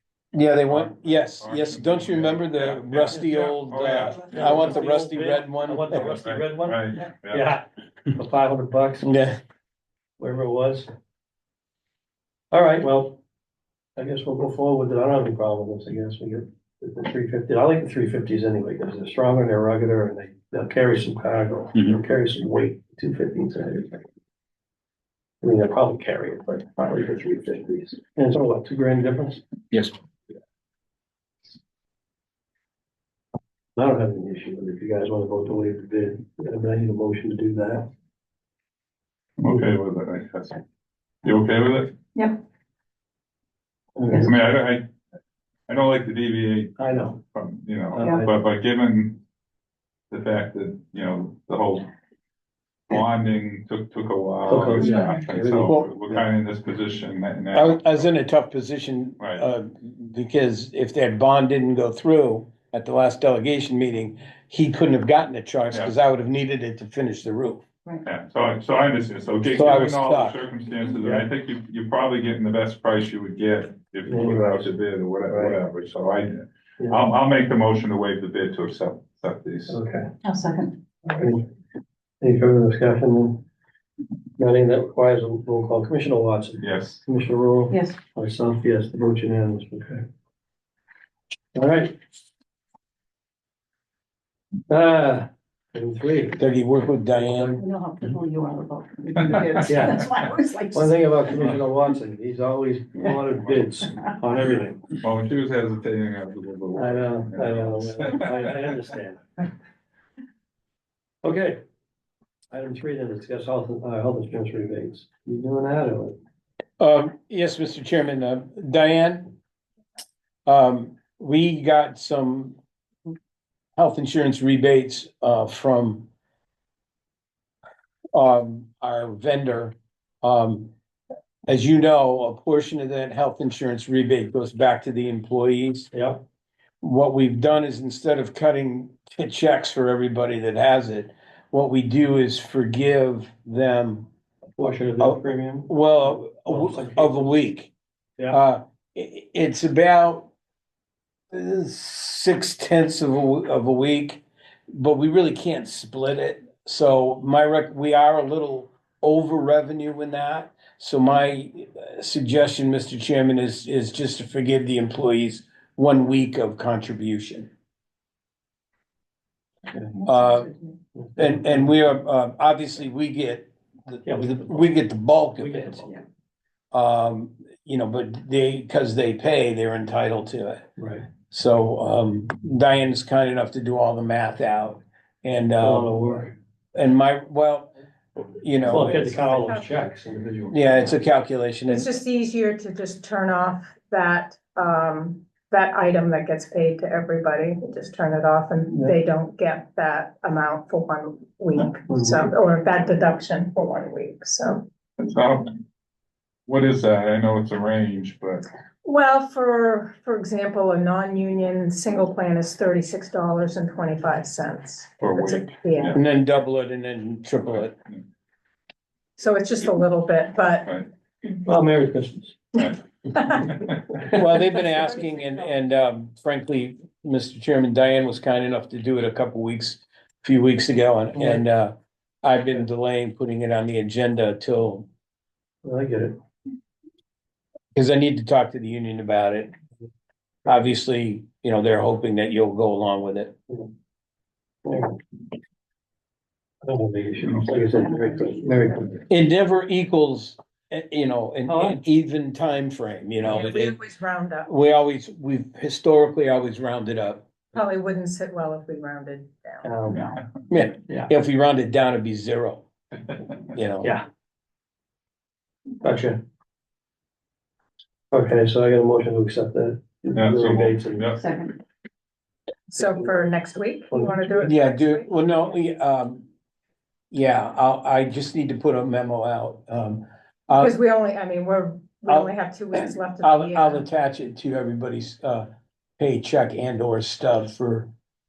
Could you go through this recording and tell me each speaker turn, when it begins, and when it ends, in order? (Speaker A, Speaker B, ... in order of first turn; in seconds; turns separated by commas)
Speaker A: 0.3-6.2, Speaker B: 0.6-4.6, Speaker C: 4.3-7.6, Speaker D: 4.5-4.8, Speaker B: 6.1-7.5, Speaker C: 8.2-9.1, Speaker A: 9.0-9.4, Speaker C: 10.2-10.9, Speaker C: 12.5-13.2, Speaker C: 14.0-24.0, Speaker C: 25.4-29.4, Speaker C: 33.8-37.9, Speaker B: 39.4-40.6, Speaker B: 41.2-42.0, Speaker C: 44.0-44.3, Speaker B: 44.2-44.9, Speaker B: 45.7-49.2, Speaker C: 46.8-47.2, Speaker C: 47.9-48.3, Speaker B: 50.1-51.9, Speaker B: 52.9-58.1, Speaker C: 54.5-56.2, Speaker D: 54.7-55.2, Speaker A: 57.5-67.6, Speaker B: 59.2-59.5, Speaker B: 68.0-79.8, Speaker A: 69.5-70.4, Speaker C: 74.1-74.7, Speaker C: 75.3-75.6, Speaker C: 79.7-80.1, Speaker D: 80.2-80.8, Speaker C: 81.0-81.4, Speaker C: 82.2-83.4, Speaker C: 84.4-90.0, Speaker B: 86.6-87.1, Speaker D: 87.7-88.0, Speaker C: 91.5-91.9, Speaker C: 94.7-96.4, Speaker A: 96.4-97.6, Speaker C: 97.2-97.6, Speaker D: 97.6-101.5, Speaker C: 99.6-100.1, Speaker C: 100.7-104.8, Speaker B: 105.0-108.8, Speaker C: 106.8-109.3, Speaker C: 111.2-111.6, Speaker C: 112.5-116.2, Speaker A: 116.8-119.4, Speaker A: 120.5-122.6, Speaker A: 123.8-126.1, Speaker A: 128.1-130.7, Speaker A: 131.5-135.9, Speaker C: 135.9-136.2, Speaker A: 136.8-144.1, Speaker C: 144.6-145.7, Speaker A: 145.0-147.7, Speaker C: 146.5-147.3, Speaker A: 148.3-150.3, Speaker A: 151.3-167.5, Speaker D: 169.9-170.7, Speaker A: 170.1-170.5, Speaker C: 171.0-171.7, Speaker A: 171.2-175.9, Speaker C: 174.1-174.7, Speaker C: 175.3-176.0, Speaker A: 176.7-180.7, Speaker C: 180.8-181.1, Speaker A: 181.3-185.9, Speaker C: 185.6-186.3, Speaker A: 186.8-189.3, Speaker C: 188.6-190.9, Speaker E: 188.9-189.7, Speaker A: 190.5-191.9, Speaker E: 191.7-204.7, Speaker C: 201.9-202.2, Speaker B: 205.0-205.6, Speaker B: 206.5-208.4, Speaker E: 208.8-216.0, Speaker B: 215.0-216.0, Speaker A: 215.9-217.7, Speaker B: 217.5-218.0, Speaker E: 219.2-220.7, Speaker C: 221.4-222.6, Speaker E: 223.1-223.5, Speaker B: 223.4-223.9, Speaker A: 224.1-234.9, Speaker E: 224.4-225.5, Speaker C: 231.2-231.4, Speaker C: 235.6-236.2, Speaker A: 237.7-239.5, Speaker A: 240.5-243.3, Speaker C: 244.7-245.0, Speaker C: 246.6-248.9, Speaker B: 247.2-247.6, Speaker D: 247.6-248.8, Speaker A: 249.1-253.8, Speaker C: 251.5-251.8, Speaker E: 253.2-254.5, Speaker A: 254.5-257.3, Speaker E: 257.5-259.8, Speaker C: 259.6-260.1, Speaker A: 260.5-262.7, Speaker A: 263.5-263.9, Speaker C: 265.8-266.2, Speaker C: 268.1-271.1, Speaker B: 270.1-271.2, Speaker D: 271.2-271.6, Speaker E: 272.7-275.4, Speaker A: 274.4-276.3, Speaker A: 277.1-280.8, Speaker E: 280.6-283.9, Speaker A: 282.1-285.5, Speaker A: 286.0-287.9